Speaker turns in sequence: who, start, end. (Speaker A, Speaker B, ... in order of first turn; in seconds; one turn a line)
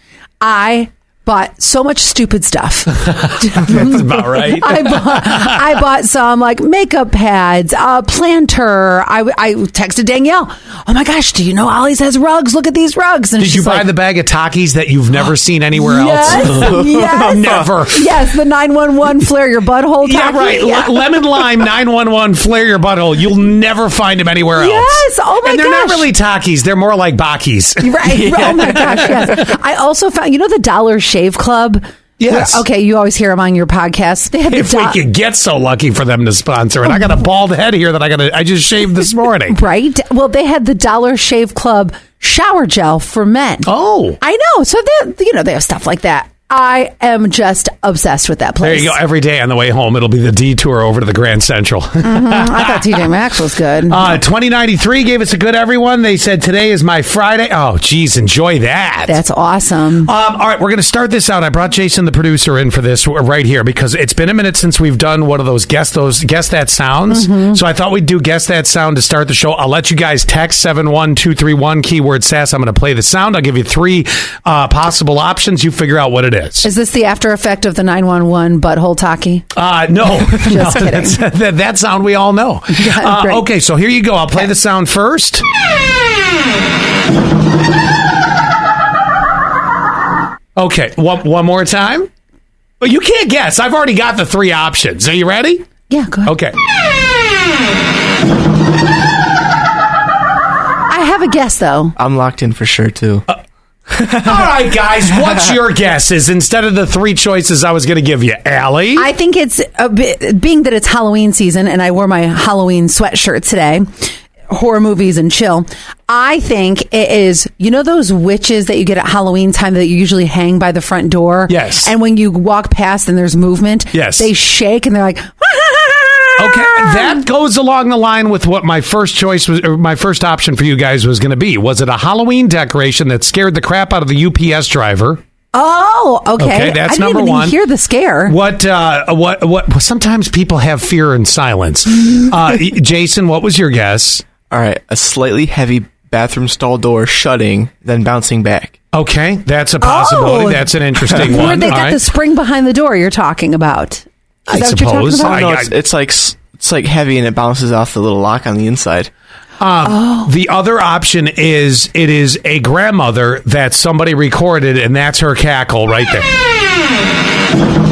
Speaker A: 0.4-13.9
Speaker B: 3.1-5.6
Speaker B: 13.4-18.2
Speaker A: 15.8-21.2
Speaker C: 16.5-17.7
Speaker B: 20.0-29.3
Speaker A: 24.5-26.1
Speaker A: 27.8-35.0
Speaker C: 28.1-29.2
Speaker B: 32.2-32.6
Speaker B: 34.5-39.6
Speaker A: 39.5-43.7
Speaker B: 43.6-44.2
Speaker A: 44.2-49.0
Speaker B: 48.6-53.0
Speaker A: 52.0-54.2
Speaker B: 53.9-59.2
Speaker A: 59.1-60.1
Speaker B: 60.0-76.7
Speaker A: 67.1-67.6
Speaker A: 76.6-79.5
Speaker B: 79.5-85.4
Speaker A: 80.2-81.2
Speaker A: 82.7-83.5
Speaker B: 90.5-92.1
Speaker B: 92.8-95.7
Speaker A: 95.9-96.3
Speaker B: 96.2-96.5
Speaker A: 100.9-102.0
Speaker C: 102.0-103.2
Speaker C: 103.9-104.6
Speaker B: 104.2-109.1
Speaker A: 109.0-113.8
Speaker A: 114.5-127.2
Speaker B: 121.5-121.9
Speaker B: 123.9-124.3
Speaker B: 126.4-135.2
Speaker A: 135.5-138.3
Speaker B: 136.4-137.5
Speaker B: 138.3-144.2
Speaker C: 144.5-148.7
Speaker B: 148.9-152.0
Speaker A: 149.8-155.4
Speaker B: 154.5-155.7
Speaker C: 155.2-159.1
Speaker B: 159.6-166.3
Speaker A: 159.8-160.3